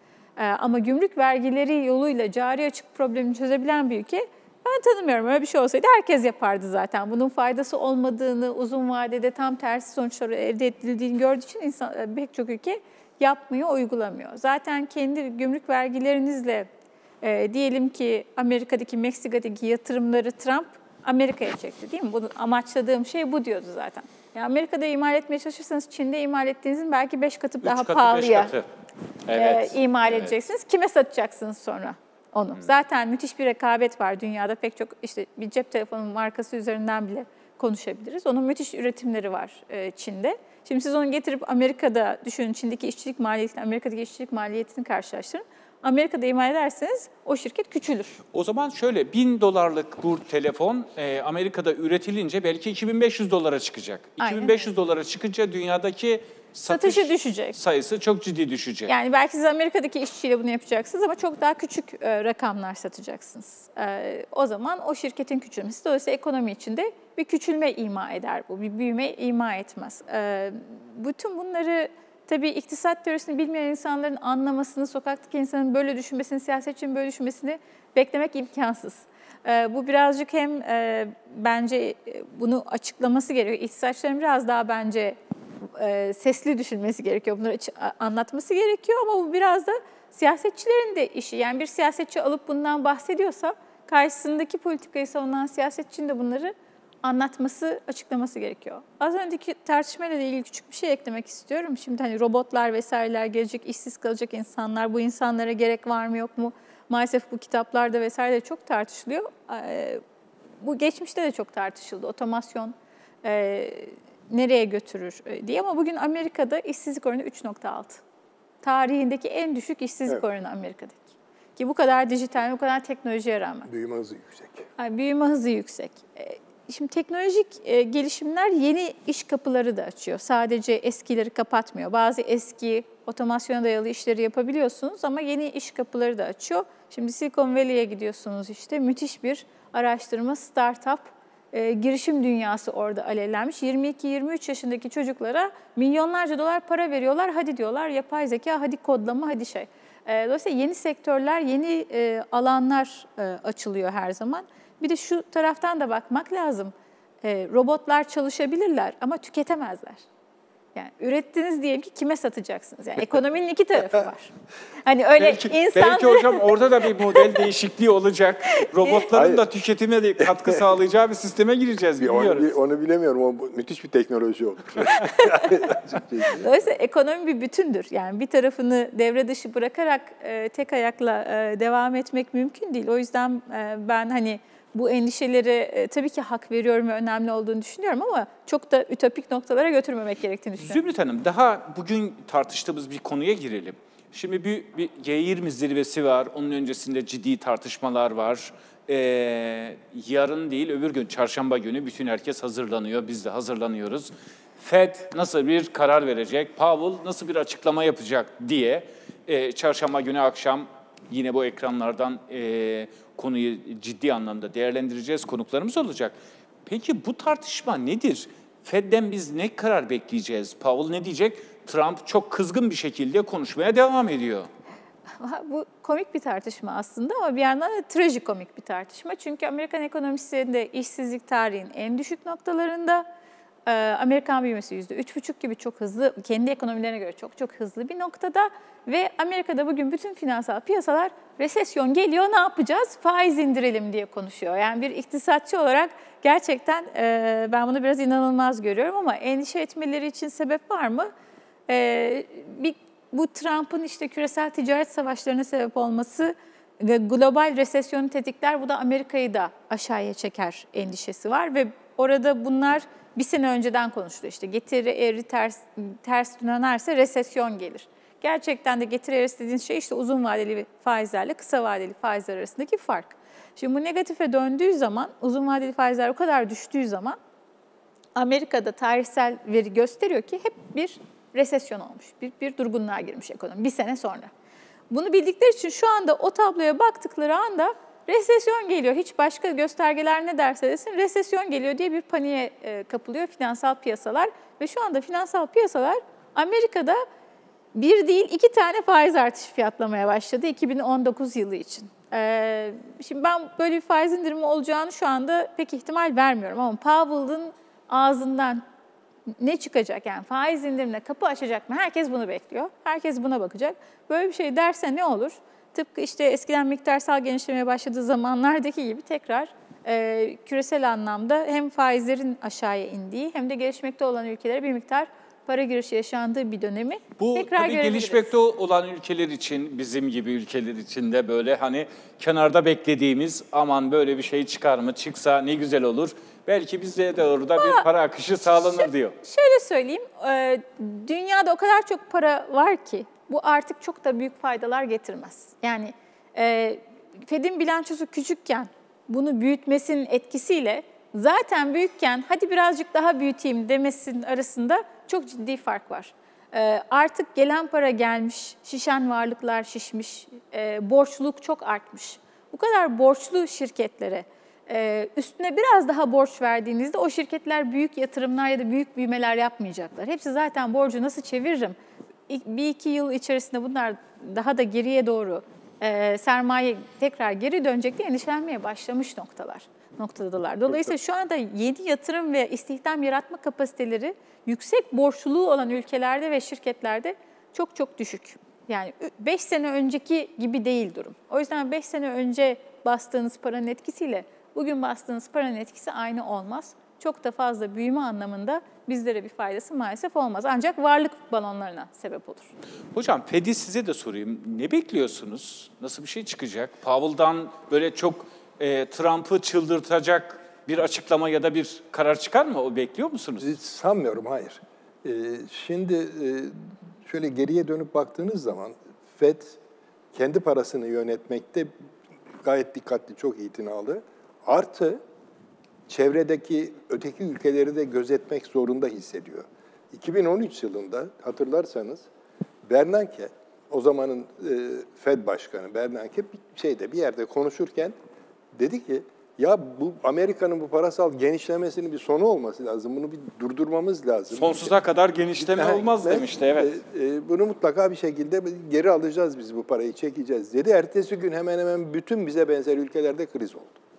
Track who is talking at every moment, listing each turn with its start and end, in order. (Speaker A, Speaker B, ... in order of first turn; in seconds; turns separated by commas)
Speaker A: 0.4-16.7, Speaker A: 17.2-28.5, Speaker B: 27.6-28.7, Speaker B: 29.3-30.4, Speaker A: 29.3-48.1, Speaker B: 48.3-58.9, Speaker A: 54.2-54.7, Speaker A: 56.7-57.6, Speaker A: 58.9-85.2, Speaker A: 85.7-110.0, Speaker A: 110.6-118.0, Speaker A: 118.6-123.7, Speaker C: 123.7-124.7, Speaker A: 124.8-160.0, Speaker A: 160.7-164.3, Speaker A: 164.8-167.5, Speaker B: 165.2-172.5, Speaker A: 168.6-169.0, Speaker C: 169.1-169.4, Speaker C: 170.2-170.5, Speaker C: 172.0-176.4, Speaker A: 174.9-190.8, Speaker B: 190.6-224.5, Speaker A: 225.2-233.1, Speaker A: 233.7-251.1, Speaker A: 251.7-277.2, Speaker A: 278.1-284.3, Speaker A: 284.9-297.0, Speaker A: 297.7-308.6, Speaker A: 309.4-328.3, Speaker B: 327.2-339.1, Speaker A: 337.6-337.9, Speaker A: 338.8-371.8, Speaker A: 372.3-402.5, Speaker B: 402.9-413.5, Speaker C: 413.4-419.6, Speaker C: 420.1-421.7, Speaker C: 422.4-425.0, Speaker C: 425.9-432.1, Speaker C: 432.6-437.9, Speaker C: 438.6-444.7, Speaker B: 444.3-446.7, Speaker C: 445.4-453.8